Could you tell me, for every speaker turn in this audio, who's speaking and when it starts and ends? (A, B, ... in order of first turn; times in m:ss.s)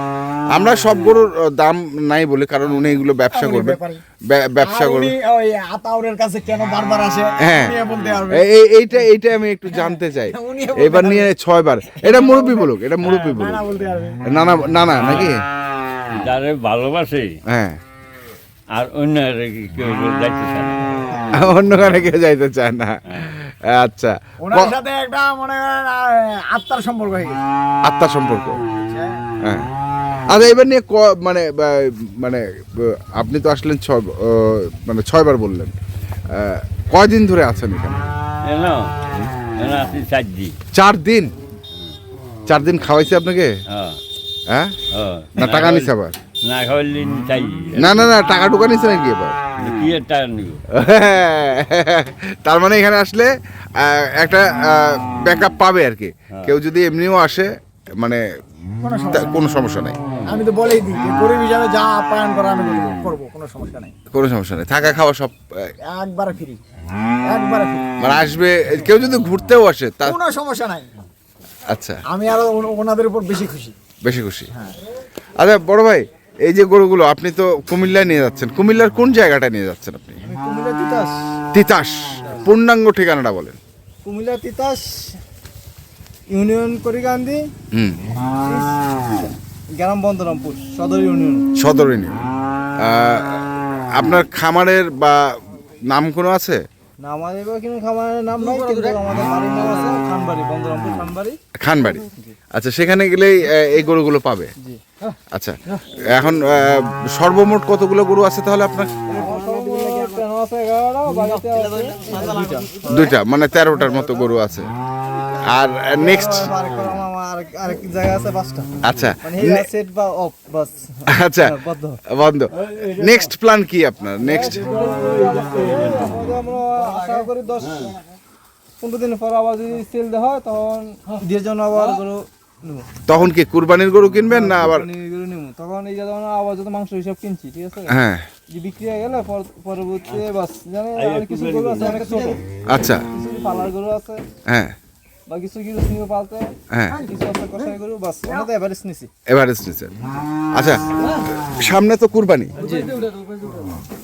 0:00.5-0:05.1 A
0:03.3-0:04.0 B
0:04.6-0:08.4 B
0:07.4-0:07.8 A
0:08.3-0:13.6 A
0:09.7-0:11.3 B
0:11.8-0:14.2 B
0:14.2-0:15.4 A
0:15.0-0:15.3 C
0:16.1-0:17.4 C
0:17.5-0:17.8 A
0:18.7-0:21.0 C
0:21.3-0:24.7 A
0:24.4-0:27.4 B
0:27.8-0:28.6 A
0:28.7-0:29.2 B
0:30.3-0:35.8 A
0:36.3-0:38.0 A
0:38.4-0:38.9 C
0:39.6-0:40.6 C
0:40.7-0:41.3 A
0:42.5-0:43.5 A
0:43.7-0:44.0 C
0:44.5-0:44.7 A
0:44.9-0:48.1 C
0:45.4-0:46.2 A
0:47.8-0:49.4 A
0:49.6-0:50.6 C
0:50.7-0:58.2 A
0:56.3-0:56.6 C
0:58.8-0:59.4 B
0:59.1-1:00.0 A
1:00.2-1:03.9 B
1:04.1-1:05.7 A
1:05.8-1:06.6 B
1:07.2-1:07.9 B
1:08.0-1:10.2 A
1:10.0-1:10.9 B
1:11.7-1:12.0 A
1:12.1-1:13.7 B
1:14.0-1:14.5 A
1:15.4-1:20.2 A
1:20.2-1:21.2 D
1:21.5-1:23.6 A
1:24.0-1:25.2 D
1:26.3-1:27.4 D
1:27.7-1:28.0 A
1:28.4-1:28.8 D
1:29.7-1:31.4 D
1:31.6-1:32.2 A
1:32.8-1:36.6 A
1:37.0-1:41.4 D
1:38.4-1:39.0 B
1:41.6-1:44.5 A
1:41.9-1:42.3 D
1:45.3-1:45.6 A
1:46.1-1:48.9 A
1:49.1-1:52.9 D
1:49.2-1:50.2 B
1:51.2-1:53.2 B
1:52.8-1:54.7 A
1:53.7-1:54.2 B
1:55.5-1:56.5 A
1:56.0-1:58.7 D
1:58.8-1:59.7 A
1:59.2-2:02.0 D
2:01.1-2:01.5 A
2:02.1-2:04.7 A
2:02.5-2:03.3 C
2:04.2-2:07.9 D
2:04.4-2:05.5 B
2:04.8-2:06.1 C
2:06.7-2:08.2 B
2:08.8-2:12.9 D
2:13.0-2:14.9 A
2:14.3-2:17.9 D
2:17.9-2:18.2 A
2:18.5-2:22.4 D
2:21.0-2:22.2 C
2:21.8-2:22.3 B
2:22.7-2:23.0 A
2:23.1-2:24.2 D
2:24.5-2:24.7 A
2:25.3-2:29.1 D
2:26.7-2:27.0 A
2:26.9-2:27.7 B
2:29.3-2:29.9 A
2:30.5-2:30.8 A
2:31.4-2:32.6 A
2:32.6-2:32.9 D
2:32.6-2:33.6 B